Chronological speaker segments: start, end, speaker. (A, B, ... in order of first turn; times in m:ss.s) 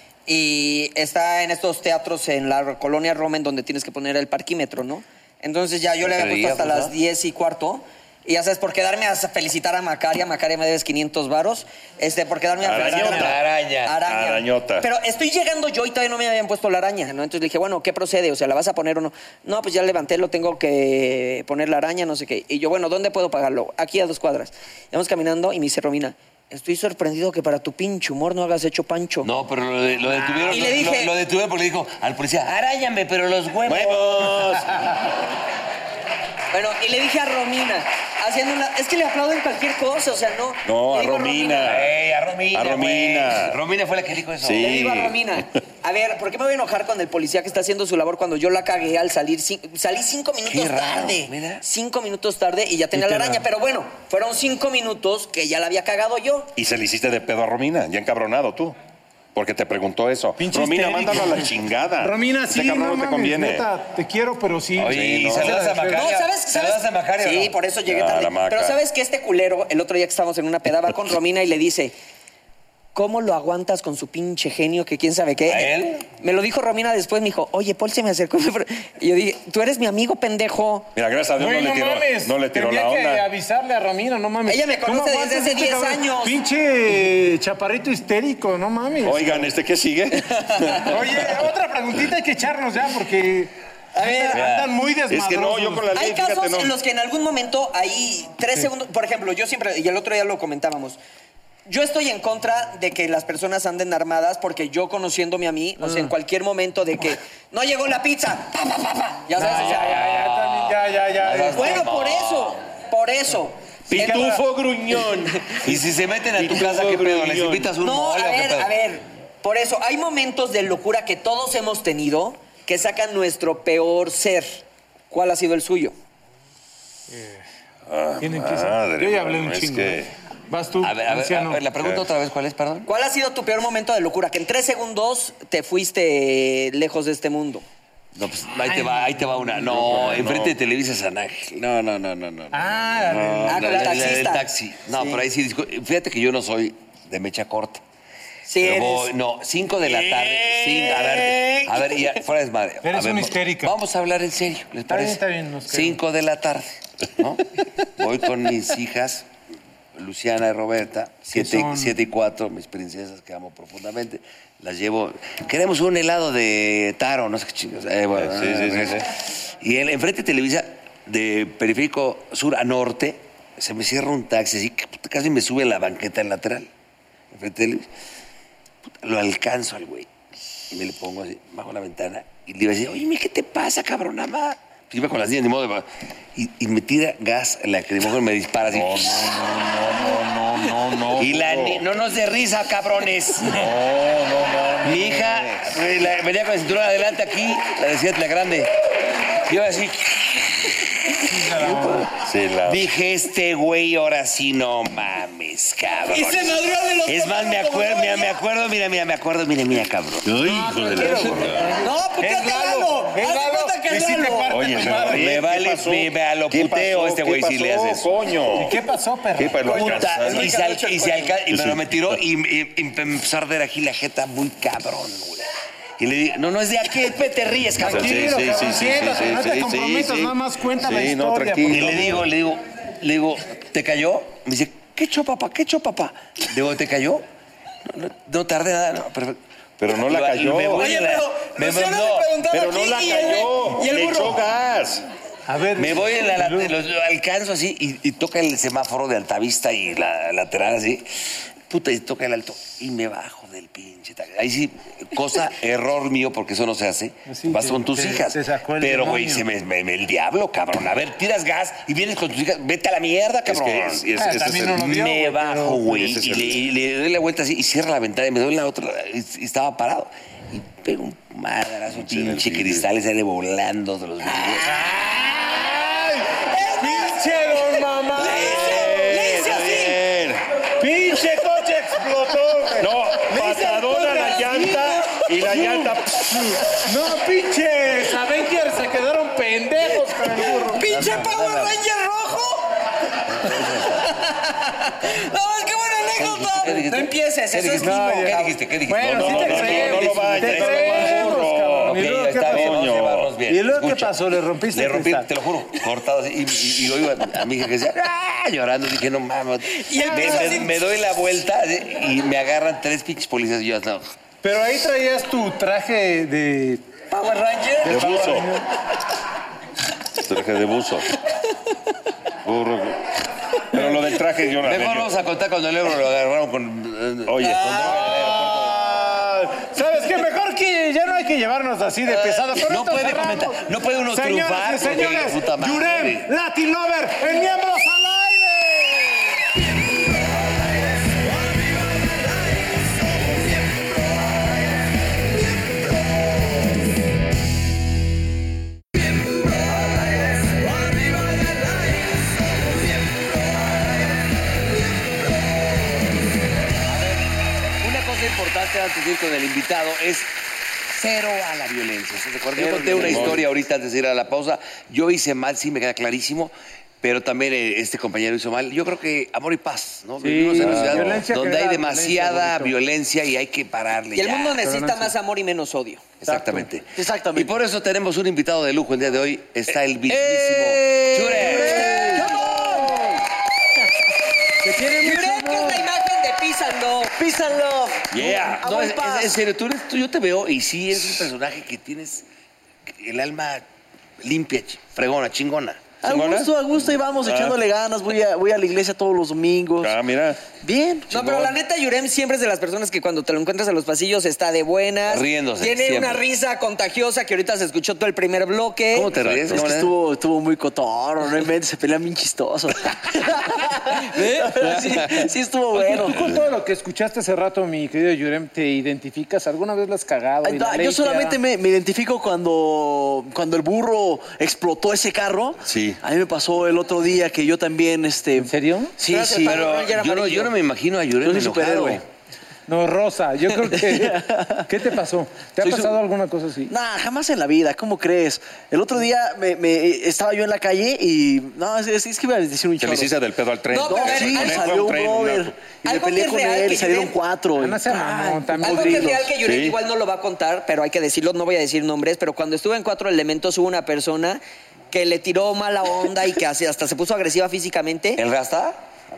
0:00.3-0:29.3 A
0:06.0-0:06.9 B
0:12.6-0:13.4 C
0:12.7-0:13.9 B
0:14.0-0:14.9 C
0:29.2-0:34.9 B
0:30.4-0:31.1 A
0:33.6-0:35.0 C
0:36.5-0:41.7 A
0:40.6-0:42.0 C
0:41.6-0:44.8 B
0:42.5-0:43.6 C
0:44.4-0:45.2 C
0:44.6-0:56.5 A
0:50.4-0:51.6 B
0:52.9-0:53.4 D
0:56.6-0:58.8 C
0:59.3-1:03.7 C
1:00.4-1:06.1 D
1:04.8-1:07.6 B
1:04.8-1:05.6 C
1:05.9-1:11.9 A
1:07.9-1:08.8 C
1:12.9-1:20.9 A
1:15.5-1:16.0 B
1:20.9-1:23.3 C
1:21.4-1:29.5 D
1:24.4-1:26.4 A
1:29.0-1:31.1 C
1:30.8-1:35.9 D
1:34.0-1:34.4 A
1:35.1-1:36.8 C
1:35.9-1:41.0 A
1:41.7-1:49.9 A
1:45.8-1:46.1 D
1:49.4-1:51.9 D
1:49.5-1:52.6 B
1:51.5-1:54.4 A
1:53.9-1:55.7 C
1:53.9-1:54.4 D
1:55.6-1:58.7 B
1:56.4-1:57.7 C
1:57.8-2:05.9 A
2:07.1-2:07.4 D
2:07.9-2:10.1 C
2:08.2-2:11.6 D
2:10.8-2:12.9 B
2:11.8-2:12.0 C
2:12.8-2:17.6 A
2:18.2-2:27.8 B
2:18.6-2:20.2 D
2:19.6-2:20.6 C
2:22.5-2:24.1 D
2:23.5-2:25.2 A
2:28.4-2:29.1 A
2:28.6-2:39.3 B
2:30.8-2:31.4 D
2:32.8-2:33.7 D
2:34.9-2:36.0 D
2:40.0-2:56.7 B
2:41.3-2:42.0 D
2:48.1-2:49.1 C
2:57.3-2:57.9 B
2:58.8-3:00.1 B
3:00.7-3:09.5 B
3:08.7-3:11.8 C
3:11.0-3:13.7 B
3:13.4-3:15.8 C
3:14.8-3:18.7 B
3:19.3-3:22.1 B
3:21.2-3:22.1 D
3:22.2-3:22.9 C
3:22.6-3:30.4 B
3:26.1-3:28.4 A
3:30.2-3:31.8 C
3:30.4-3:35.3 D
3:31.8-3:34.5 A
3:34.5-3:38.8 C
3:34.9-3:38.2 B
3:38.5-3:40.0 D
3:39.4-3:40.5 C
3:39.6-3:41.4 A
3:39.6-3:48.4 B
3:41.5-3:42.2 C
3:47.8-3:51.8 D
3:47.8-3:52.3 C
3:51.7-3:57.2 B
3:57.8-4:02.3 B
3:59.8-4:00.9 C
4:00.8-4:04.4 A
4:02.5-4:05.1 C
4:05.5-4:06.7 D
4:05.8-4:24.1 B
4:17.3-4:19.4 D
4:23.4-4:24.9 C
4:24.1-4:26.2 D
4:24.6-4:34.7 B
4:25.9-4:26.6 C
4:31.9-4:32.8 C
4:34.6-4:39.2 D
4:36.4-4:40.0 A
4:38.4-4:40.4 C
4:40.8-4:50.8 D
4:42.8-4:46.6 C
4:50.7-4:52.6 A
4:50.8-4:51.8 B
4:53.3-4:54.1 B
4:54.0-4:58.5 A
4:56.2-5:01.3 B
4:57.8-5:02.9 D
4:59.1-5:03.3 C
5:01.8-5:04.2 B
5:03.4-5:05.3 D
5:04.7-5:14.1 B
5:09.7-5:10.8 A
5:10.1-5:10.5 D
5:14.4-5:17.0 D
5:17.1-5:18.1 A
5:17.8-5:18.7 D
5:17.8-5:18.6 C
5:20.1-5:21.1 C
5:22.4-5:23.1 C
5:23.6-5:25.1 C
5:24.6-5:28.8 B
5:27.2-5:28.0 C
5:27.8-5:39.4 D
5:32.1-5:36.3 B
5:56.9-5:57.2 B
5:57.8-6:00.3 B
6:00.9-6:14.6 B
6:02.6-6:03.4 C
6:02.7-6:03.3 E
6:10.2-6:12.7 D
6:10.6-6:11.2 C
6:14.1-6:16.1 A
6:14.6-6:15.1 D
6:16.2-6:22.3 B
6:16.2-6:16.7 D
6:17.0-6:17.5 E
6:20.1-6:23.2 E
6:21.3-6:22.9 D
6:24.6-6:25.8 D
6:24.8-6:27.1 A
6:27.2-6:29.3 E
6:28.1-6:32.2 B
6:32.9-6:33.6 B
6:34.2-6:35.8 B
6:36.0-6:39.9 E
6:36.0-6:36.5 C
6:37.2-6:37.6 C
6:39.8-6:40.4 C
6:40.6-6:41.5 E
6:41.1-6:49.1 A
6:45.1-6:46.2 B
6:48.9-6:49.9 B
6:49.1-6:49.6 C
6:49.5-6:56.3 E
6:54.6-6:55.3 B
6:55.7-7:01.4 D
7:00.4-7:09.6 E
7:05.6-7:06.0 C
7:08.4-7:08.9 D
7:09.0-7:10.5 A
7:09.3-7:12.0 B
7:11.2-7:12.0 E
7:12.7-7:16.7 D
7:13.6-7:14.7 E
7:15.6-7:16.0 E
7:16.7-7:23.1 E
7:22.8-7:25.6 C
7:23.7-7:24.8 A
7:23.8-7:29.1 E
7:25.8-7:27.1 A
7:27.6-7:29.3 D
7:27.9-7:38.2 A
7:29.4-7:29.8 C
7:38.2-7:38.8 B